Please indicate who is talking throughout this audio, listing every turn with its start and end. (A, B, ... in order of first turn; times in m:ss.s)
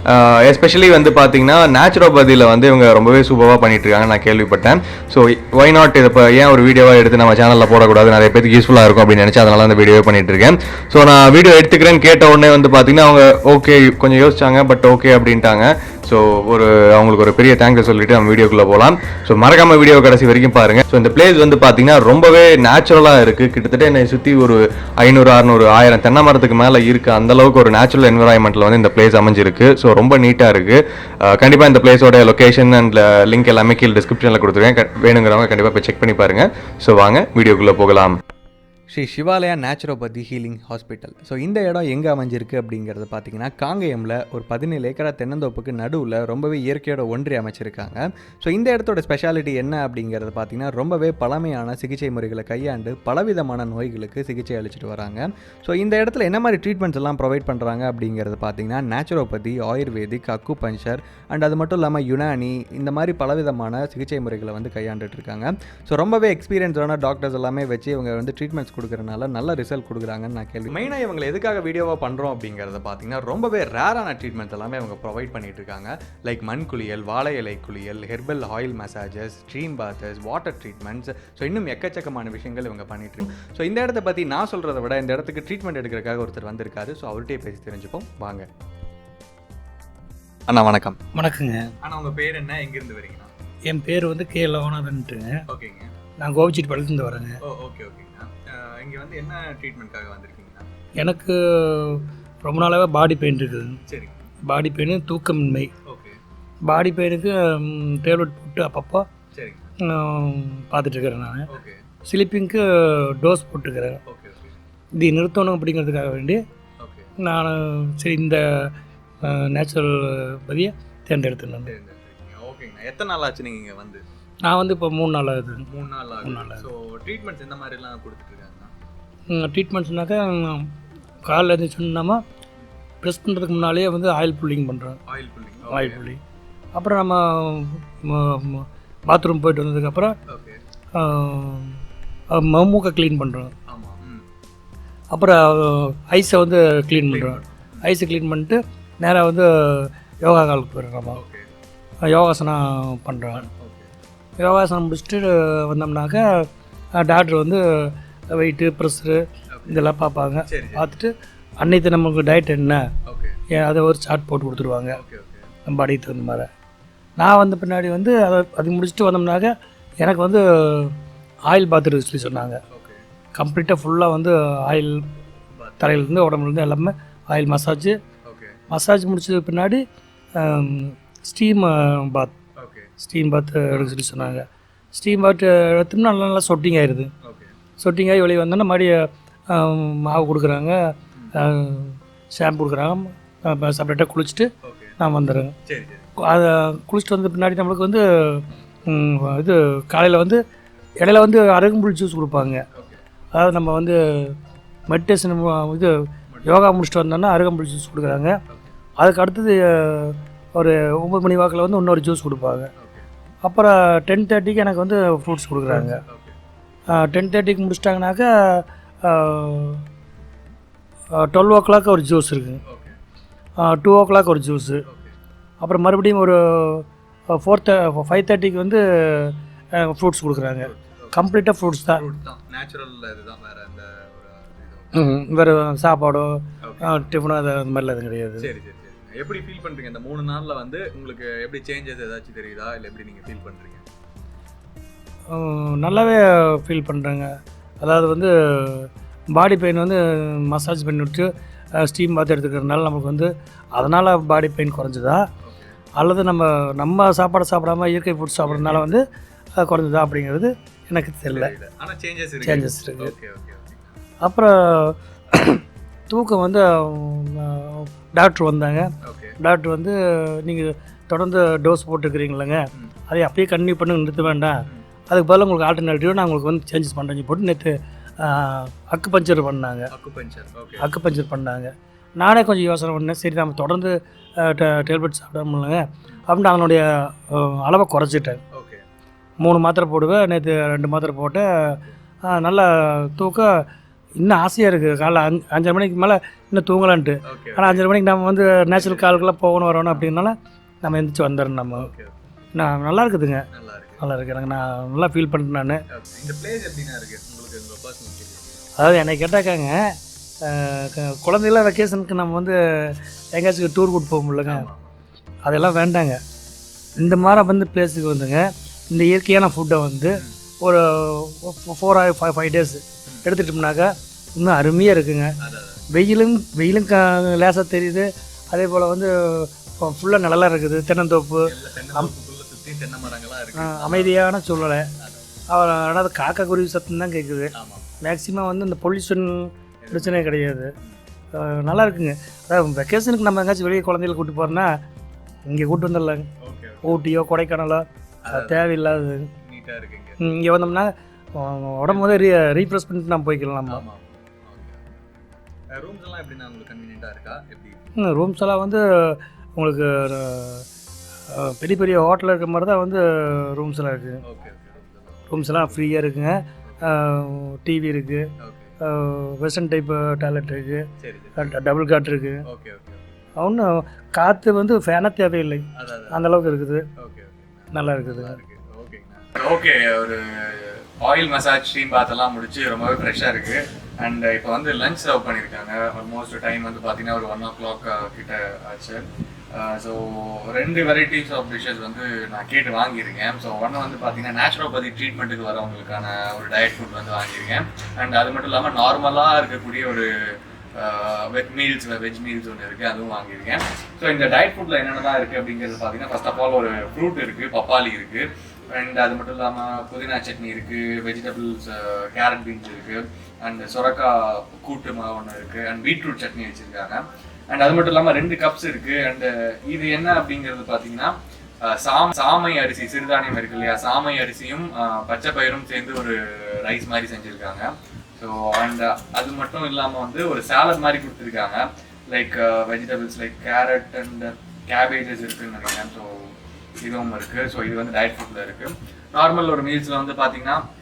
0:00.5-0:30.8 A
0:20.3-0:21.0 B
0:31.4-0:38.1 A
0:38.9-1:28.5 B
1:30.5-1:31.0 B
1:31.1-1:31.7 C
1:31.8-1:33.3 B
1:33.6-1:35.4 C
1:35.5-1:35.9 B
1:36.2-1:37.4 C
1:37.4-1:40.7 B
1:41.0-1:43.8 C
1:43.9-1:44.3 B
1:44.4-1:45.7 C
1:45.9-1:46.2 B
1:46.6-1:49.1 C
1:49.3-1:49.7 B
1:49.8-1:51.5 C
1:51.5-1:51.8 B
1:52.0-1:54.0 C
1:54.1-1:54.6 B
1:54.9-1:56.4 C
1:56.8-1:57.2 B
1:57.2-2:01.7 C
2:01.6-2:04.0 B
2:04.4-2:05.7 C
2:05.7-2:08.7 B
2:06.2-2:06.6 C
2:09.3-2:10.7 C
2:11.2-2:12.2 C
2:13.0-2:15.0 C
2:15.1-2:16.0 B
2:15.7-2:16.2 C
2:16.7-2:20.2 C
2:20.3-2:20.6 B
2:20.9-2:21.8 C
2:22.3-2:23.5 C
2:23.7-2:24.2 B
2:25.1-2:31.2 C
2:27.1-2:27.8 B
2:31.1-2:31.5 B
2:32.0-2:33.5 C
2:33.3-2:33.9 B
2:34.4-2:42.9 C
2:39.5-2:39.9 B
2:40.4-2:40.9 B
2:43.1-2:43.4 B
2:43.5-2:45.0 C
2:44.9-2:45.5 B
2:45.7-2:46.5 C
2:47.2-2:52.6 C
2:52.7-2:53.0 B
2:53.3-2:55.0 C
2:55.5-2:56.0 B
2:55.8-2:58.0 C
2:58.2-2:58.6 B
2:58.7-2:59.8 C
3:00.4-3:02.3 C
3:02.6-3:02.9 B
3:03.0-3:07.1 C
3:03.7-3:04.4 B
3:07.2-3:07.6 B
3:07.8-3:10.8 C
3:11.3-3:15.6 C
3:14.6-3:15.0 B
3:15.6-3:16.1 B
3:16.2-3:20.4 C
3:21.0-3:22.6 C
3:22.7-3:23.0 B
3:23.3-3:24.4 C
3:24.9-3:25.9 C
3:26.3-3:26.6 B
3:26.4-3:28.4 C
3:29.0-3:32.7 C
3:32.8-3:33.1 B
3:33.4-3:36.0 C
3:35.8-3:36.4 B
3:36.9-3:39.8 C
3:41.1-3:42.6 C
3:42.6-3:43.0 B
3:43.6-3:44.8 C
3:44.8-3:45.2 B
3:45.6-3:52.0 C
3:50.6-3:51.2 B
3:51.9-3:55.0 B
3:54.9-3:58.5 C
3:56.6-3:57.2 B
3:58.4-4:03.8 B
4:05.3-4:15.2 C
4:15.4-4:15.8 B
4:16.0-4:19.0 C
4:18.4-4:19.0 B
4:19.6-4:21.5 C
4:21.3-4:24.0 B
4:22.4-4:23.1 C
4:24.2-4:28.9 C
4:29.0-4:29.4 B
4:29.4-4:34.6 C
4:35.1-4:39.9 C
4:39.9-4:40.9 B
4:40.8-4:48.4 C
4:48.5-4:48.8 B
4:49.4-4:53.7 C
4:54.2-5:01.9 C
4:57.2-4:57.9 B
4:58.7-4:59.3 B
5:01.7-5:02.3 B
5:02.6-5:03.4 C
5:03.5-5:04.0 B
5:04.0-5:05.8 C
5:05.9-5:08.6 B
5:08.8-5:14.6 C
5:14.4-5:14.9 B
5:15.4-5:16.2 C
5:17.0-5:25.3 C
5:25.4-5:25.9 B
5:25.9-5:32.1 C
5:31.4-5:34.4 B
5:33.6-5:34.9 C
5:35.0-5:35.2 B
5:35.5-5:37.5 C
5:37.5-5:37.9 B
5:38.0-5:40.7 C
5:39.8-5:40.3 B
5:41.3-5:44.7 C
5:45.5-5:46.3 C
5:46.4-5:47.1 B
5:46.8-5:49.3 C
5:48.2-5:50.2 B
5:50.2-5:53.8 C
5:51.9-5:52.3 B
5:53.7-5:57.9 B
5:58.0-6:00.7 C
6:01.3-6:04.2 C
6:04.2-6:06.0 B
6:05.3-6:08.3 C
6:06.6-6:06.9 B
6:08.4-6:08.8 B
6:08.8-6:12.4 C
6:11.0-6:11.6 B
6:12.4-6:13.3 B
6:13.4-6:16.9 C
6:15.7-6:16.3 B
6:17.0-7:20.6 B
6:17.7-6:18.4 C